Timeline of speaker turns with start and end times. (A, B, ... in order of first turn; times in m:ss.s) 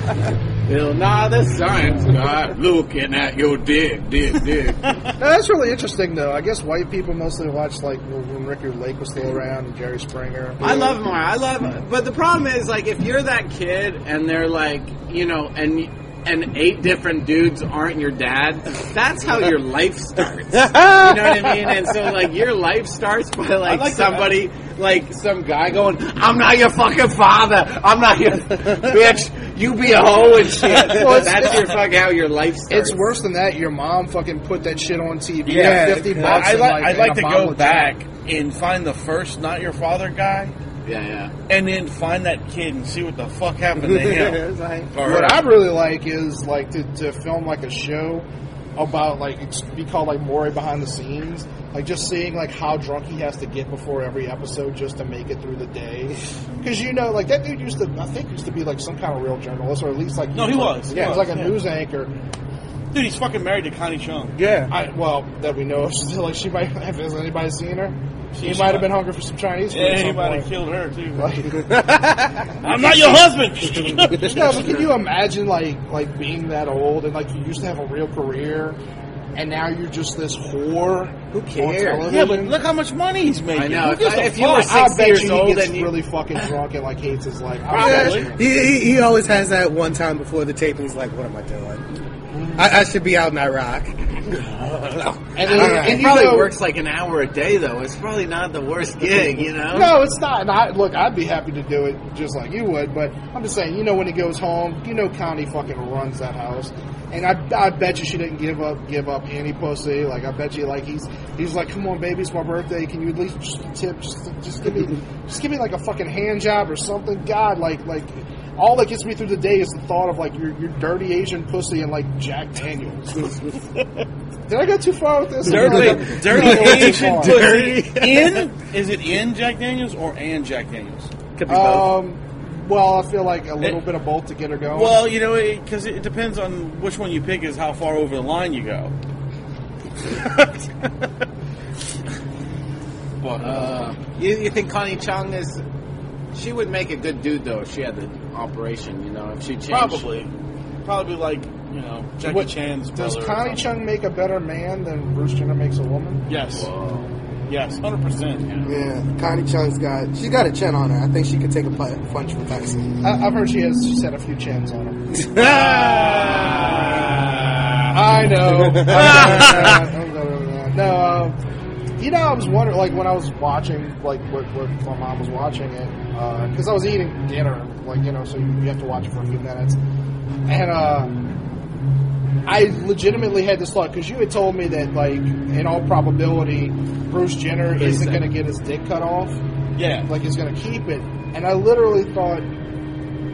0:00.6-0:04.8 A
0:05.2-0:11.0 B
0:10.6-0:33.1 A
0:20.7-0:21.7 C
0:23.6-0:24.4 D
0:30.8-0:31.8 B
0:32.7-0:37.9 B
0:35.4-0:40.5 D
0:35.5-0:36.5 C
0:40.8-0:41.3 A
0:41.5-0:45.4 D
0:43.7-0:44.9 C
0:45.0-1:02.1 B
1:00.3-1:01.6 D
1:00.9-1:01.3 C
1:02.9-1:04.3 D
1:04.4-1:04.7 C
1:04.7-1:10.5 B
1:08.3-1:08.9 D
1:09.7-1:11.4 D
1:11.2-1:11.8 B
1:11.6-1:12.5 C
1:12.6-1:14.8 D
1:12.6-1:13.2 B
1:14.2-1:18.8 B
1:19.3-1:22.6 B
1:21.3-1:22.1 A
1:22.0-1:24.7 D
1:23.5-1:25.9 A
1:24.4-1:28.4 B
1:27.7-1:28.3 D
1:27.7-1:31.8 C
1:32.5-1:36.1 C
1:35.3-1:36.5 B
1:35.5-1:40.0 A
1:39.7-2:03.3 B
2:04.5-2:07.6 B
2:05.4-2:11.9 D
2:05.5-2:08.4 C
2:11.5-2:15.0 B
2:14.7-2:18.9 D
2:20.1-2:20.5 D
2:23.2-2:23.9 D
2:23.4-2:25.6 A
2:26.3-2:30.0 A
2:29.7-2:30.3 D
2:30.8-2:33.6 D
2:32.2-2:36.2 B
2:36.3-2:36.7 D
2:37.5-2:38.4 D
2:38.6-2:42.9 C
2:43.0-2:46.2 B
2:45.1-2:47.1 C
2:45.7-2:47.0 D
2:47.9-2:51.4 B
2:48.4-2:49.8 C
2:48.9-2:49.7 D
2:52.0-2:59.8 B
3:00.5-3:01.1 B
3:02.4-3:09.4 B
3:07.8-3:08.3 D
3:09.8-3:10.1 D
3:10.1-3:12.5 B